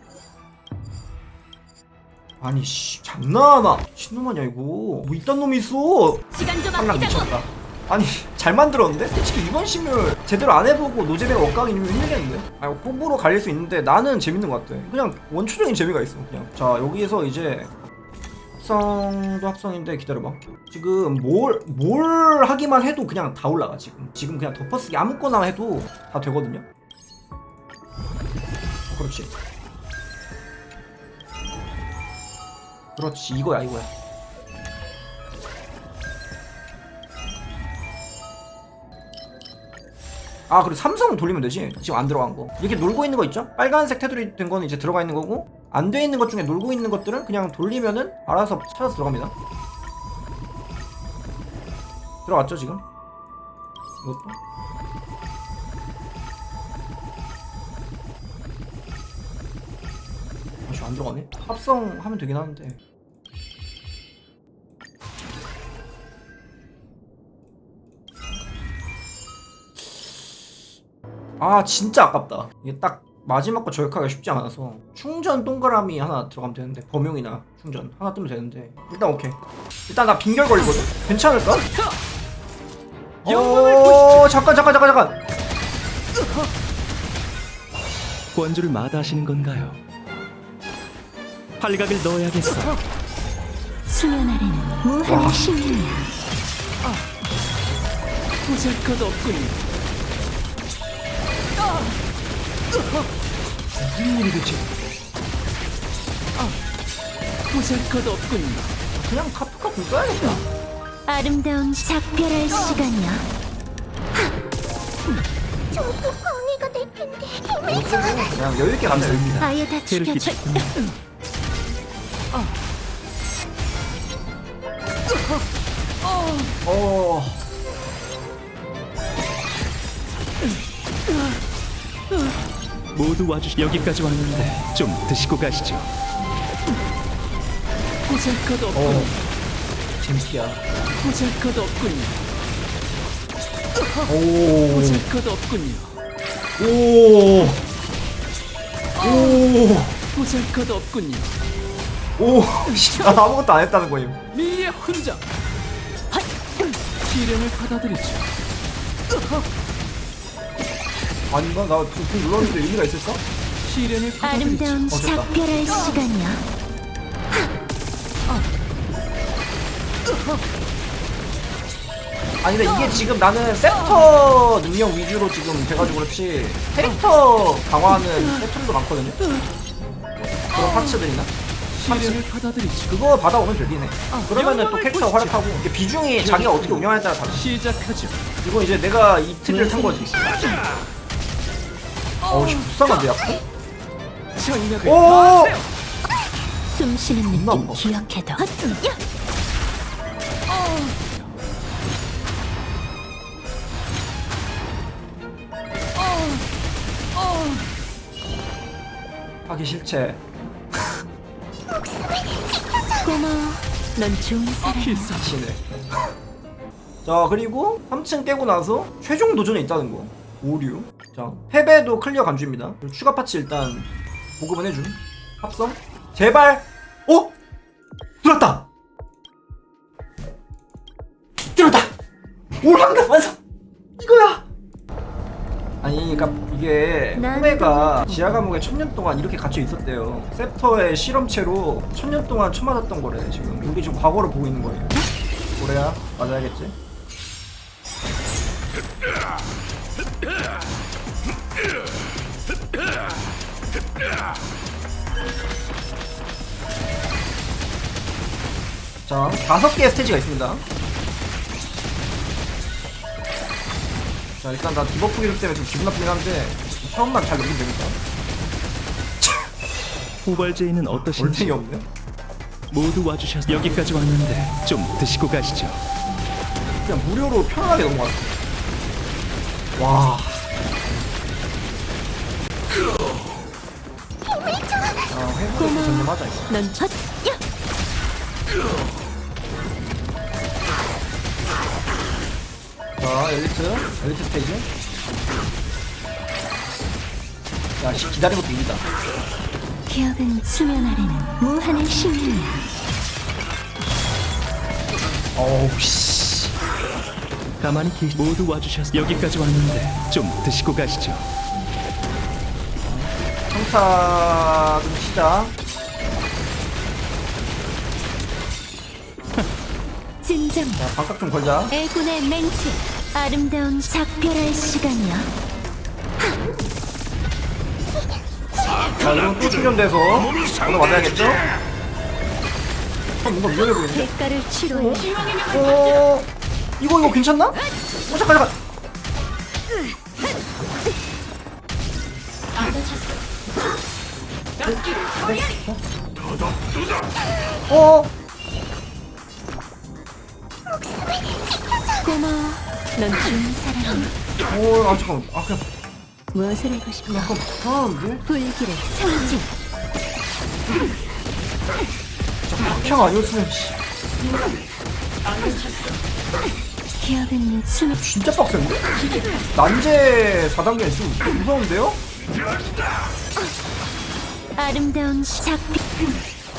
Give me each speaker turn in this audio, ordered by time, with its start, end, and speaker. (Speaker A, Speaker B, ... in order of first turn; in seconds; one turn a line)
Speaker A: 2.4-17.7
Speaker B: 6.3-7.3
Speaker A: 18.6-26.7
Speaker A: 28.9-29.3
Speaker A: 33.0-33.9
Speaker A: 40.5-49.3
Speaker A: 52.3-52.8
Speaker A: 54.0-54.4
Speaker A: 60.7-62.8
Speaker A: 69.8-70.1
Speaker A: 71.4-79.4
Speaker A: 79.9-81.7
Speaker A: 83.2-85.2
Speaker C: 88.3-89.8
Speaker C: 91.6-92.8
Speaker B: 93.9-96.1
Speaker A: 95.1-95.5
Speaker C: 98.5-99.5
Speaker A: 103.8-104.7
Speaker C: 107.5-108.7
Speaker A: 108.9-110.4
Speaker B: 111.1-113.3
Speaker B: 115.7-118.1
Speaker A: 117.7-119.5
Speaker C: 118.8-120.9
Speaker B: 119.4-120.7
Speaker A: 126.7-127.4
Speaker C: 132.9-135.9
Speaker C: 138.2-139.1
Speaker A: 138.7-139.2
Speaker A: 140.0-140.6
Speaker C: 141.0-142.1
Speaker A: 144.1-145.1
Speaker C: 145.1-145.9
Speaker A: 146.6-147.6
Speaker A: 149.0-150.0
Speaker C: 150.2-151.3
Speaker A: 152.2-154.2
Speaker C: 154.4-155.2
Speaker C: 157.0-158.3
Speaker A: 161.3-163.2
Speaker C: 163.7-164.8
Speaker B: 164.2-166.4
Speaker A: 164.9-165.3
Speaker A: 172.4-179.3
Speaker A: 180.5-181.3
Speaker C: 181.7-182.9
Speaker A: 181.8-182.2
Speaker A: 182.9-187.6
Speaker C: 187.6-188.2
Speaker A: 188.4-190.2
Speaker A: 192.3-193.4
Speaker C: 194.4-194.8
Speaker A: 194.8-195.6
Speaker B: 196.7-199.0
Speaker A: 197.3-197.8
Speaker A: 209.5-210.2
Speaker B: 213.0-215.2
Speaker A: 215.1-215.8
Speaker A: 217.1-227.3
Speaker A: 228.2-228.7
Speaker A: 231.5-231.9
Speaker A: 232.6-233.4
Speaker A: 234.0-234.5
Speaker A: 235.8-244.9
Speaker B: 237.2-238.5
Speaker A: 245.6-246.8
Speaker A: 259.1-260.6
Speaker A: 264.4-268.0
Speaker A: 269.2-269.5
Speaker C: 270.2-271.6
Speaker A: 270.9-271.9
Speaker C: 272.7-275.8
Speaker A: 273.5-273.8
Speaker A: 276.9-278.3
Speaker A: 279.8-280.5
Speaker A: 285.1-286.5
Speaker B: 285.6-287.4
Speaker A: 293.0-294.7
Speaker A: 297.8-298.8
Speaker B: 299.9-302.6
Speaker A: 305.4-306.5
Speaker C: 307.6-311.3
Speaker A: 312.8-315.6
Speaker B: 320.2-320.9
Speaker A: 320.8-321.7
Speaker B: 321.7-325.3
Speaker A: 329.0-331.4
Speaker A: 333.2-334.1
Speaker B: 333.7-335.4
Speaker A: 334.7-336.3
Speaker A: 336.8-338.6
Speaker A: 344.6-345.8
Speaker A: 347.7-348.1
Speaker B: 352.0-354.1
Speaker A: 354.5-355.6
Speaker B: 356.3-357.4
Speaker A: 357.1-358.2
Speaker B: 358.3-359.5
Speaker A: 362.5-363.8
Speaker B: 367.0-368.0
Speaker A: 367.9-368.8
Speaker A: 369.5-372.0
Speaker B: 374.6-375.8